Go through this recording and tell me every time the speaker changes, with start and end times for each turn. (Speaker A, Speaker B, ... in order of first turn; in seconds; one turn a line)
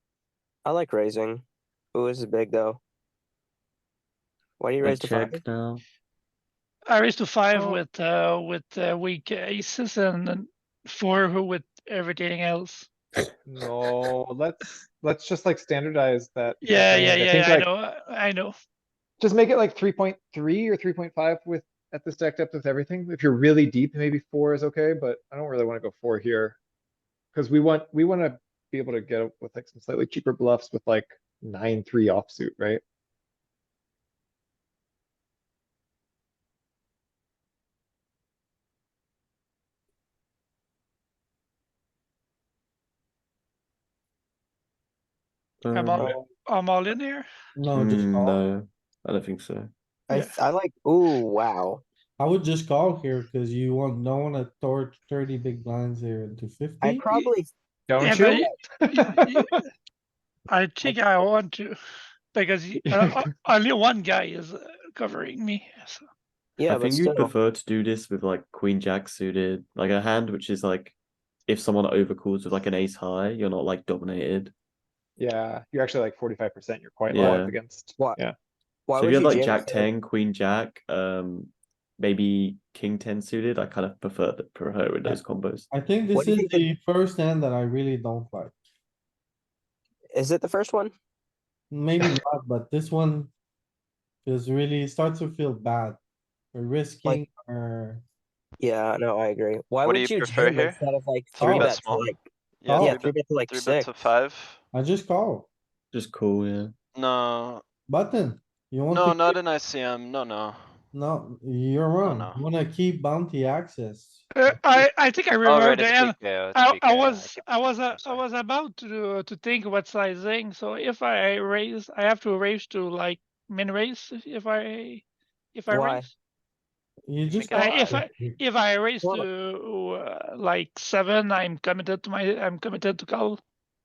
Speaker A: 0.6-1.4
Speaker A: 1.9-2.8
Speaker A: 4.6-5.4
Speaker B: 4.8-5.8
Speaker C: 6.9-12.9
Speaker D: 7.5-7.8
Speaker D: 13.4-17.7
Speaker C: 16.6-18.5
Speaker D: 19.2-26.6
Speaker D: 27.3-32.8
Speaker B: 45.6-46.1
Speaker C: 45.7-47.3
Speaker A: 46.0-46.2
Speaker E: 47.5-48.4
Speaker B: 47.7-49.7
Speaker A: 50.1-51.8
Speaker E: 52.2-57.0
Speaker A: 56.8-57.5
Speaker D: 57.9-59.5
Speaker C: 58.0-59.6
Speaker A: 58.0-58.4
Speaker C: 60.5-61.8
Speaker C: 62.3-66.0
Speaker D: 62.8-63.3
Speaker A: 66.6-67.3
Speaker B: 66.7-71.0
Speaker B: 71.5-74.5
Speaker D: 75.2-78.3
Speaker B: 77.1-77.5
Speaker A: 77.9-78.2
Speaker A: 78.9-79.9
Speaker B: 78.9-85.7
Speaker E: 85.0-88.5
Speaker A: 86.1-86.7
Speaker A: 90.1-90.9
Speaker E: 91.7-93.3
Speaker E: 94.2-96.0
Speaker E: 96.5-98.0
Speaker A: 98.6-102.2
Speaker F: 99.8-100.8
Speaker F: 101.3-104.6
Speaker E: 101.4-101.8
Speaker E: 102.7-103.0
Speaker A: 102.8-104.1
Speaker E: 104.7-105.5
Speaker B: 105.9-106.7
Speaker F: 106.9-107.6
Speaker E: 107.9-109.4
Speaker F: 108.9-110.6
Speaker E: 110.9-114.2
Speaker F: 112.0-112.4
Speaker C: 114.3-125.0
Speaker F: 115.4-118.2
Speaker C: 125.5-126.1
Speaker A: 125.7-126.1
Speaker E: 127.1-128.4
Speaker F: 127.3-128.0
Speaker C: 127.5-133.4